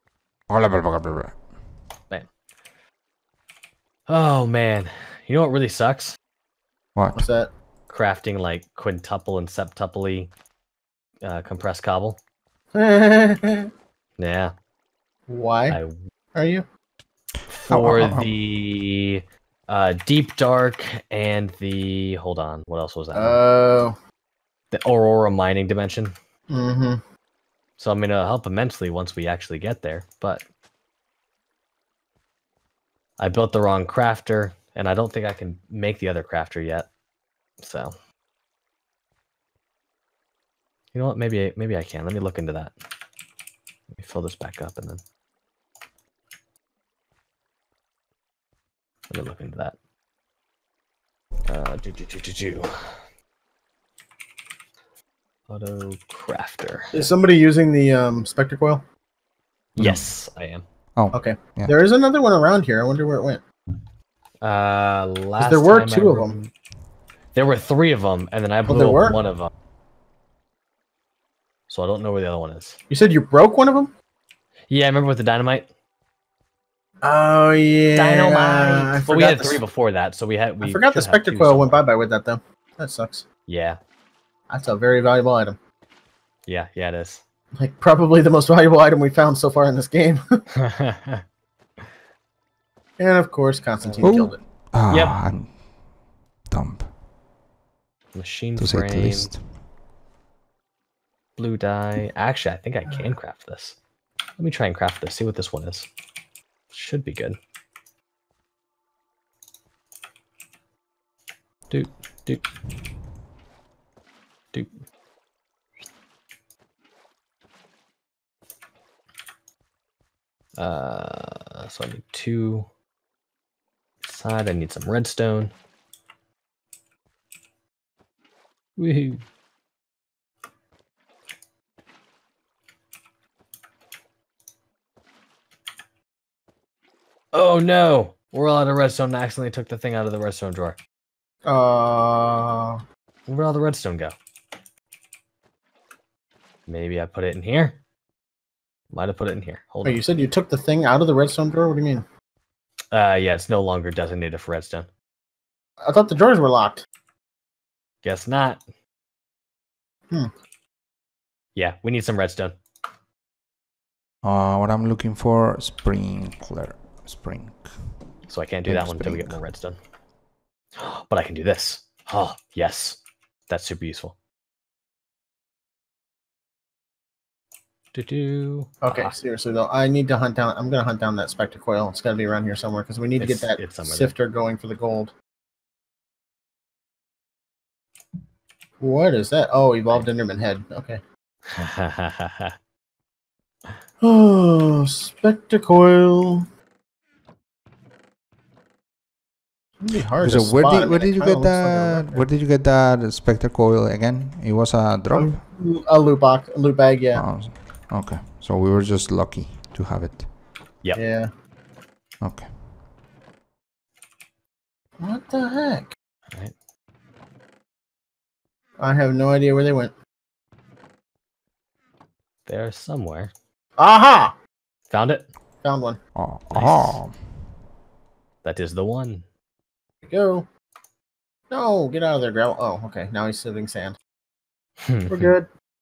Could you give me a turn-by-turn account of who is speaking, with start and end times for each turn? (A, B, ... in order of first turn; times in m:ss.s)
0:00.5-0:01.4 A
0:04.1-0:06.2 B
0:06.9-0:07.3 A
0:07.1-0:07.5 C
0:07.9-0:10.3 B
0:11.2-0:12.2 B
0:12.7-0:13.7 C
0:14.2-0:14.5 B
0:15.3-0:15.8 C
0:15.7-0:16.0 B
0:16.3-0:16.6 C
0:17.5-0:23.4 B
0:17.7-0:18.3 A
0:23.1-0:24.0 C
0:24.7-0:26.1 B
0:26.5-0:27.0 C
0:27.8-0:30.4 B
0:33.2-0:36.9 B
0:37.6-0:38.0 B
0:40.9-0:42.7 B
0:43.9-0:45.0 B
0:49.1-0:49.8 B
0:51.5-0:53.0 B
0:55.5-0:57.1 B
0:56.9-0:58.8 C
0:59.7-1:00.6 B
0:59.8-1:00.0 A
1:00.9-1:01.7 A
1:01.1-1:03.4 C
1:04.4-1:06.5 B
1:05.4-1:06.4 C
1:07.3-1:09.5 B
1:08.7-1:09.2 C
1:11.7-1:12.8 B
1:12.9-1:13.9 C
1:14.7-1:15.7 B
1:17.0-1:19.6 C
1:17.9-1:21.8 B
1:20.6-1:23.2 C
1:23.5-1:23.8 B
1:24.5-1:25.6 C
1:26.5-1:27.2 B
1:27.6-1:30.2 C
1:30.6-1:31.2 B
1:33.0-1:34.4 C
1:33.8-1:34.2 B
1:34.0-1:35.6 A
1:34.9-1:35.2 B
1:36.5-1:36.9 A
1:38.1-1:39.3 B
1:38.6-1:39.4 A
1:41.4-1:43.8 B
1:44.4-1:45.9 B
1:46.7-1:47.4 B
1:51.7-1:52.4 B
2:00.6-2:02.7 B
2:04.0-2:05.5 B
2:08.8-2:09.2 B
2:17.3-2:20.8 B
2:21.4-2:22.8 C
2:23.3-2:24.1 B
2:26.7-2:27.8 B
2:28.9-2:30.0 B
2:29.8-2:32.0 C
2:32.9-2:34.9 B
2:35.8-2:36.8 C
2:38.0-2:38.6 B
2:41.5-2:42.5 B
2:44.2-2:47.7 A
2:48.3-2:49.8 B
2:48.7-2:49.4 A
2:50.8-2:54.1 B
2:57.9-2:59.2 B
2:58.8-3:05.1 C
3:03.2-3:04.1 B
3:08.8-3:11.0 C
3:11.5-3:12.5 B
3:14.0-3:16.4 C
3:19.8-3:22.3 C
3:20.2-3:25.4 A
3:25.1-3:27.3 C
3:27.1-3:30.3 A
3:30.9-3:31.3 C
3:32.2-3:32.5 A
3:35.0-3:35.9 C
3:38.8-3:39.9 C
3:42.4-3:43.3 B
3:43.8-3:44.3 C
3:44.9-3:45.3 B
3:45.6-3:46.0 C
3:46.1-3:47.1 A
3:46.5-3:47.0 B
3:48.4-3:49.2 B
3:50.1-3:50.5 C
3:51.5-3:54.0 C
3:54.8-3:55.3 B
3:55.1-3:55.5 C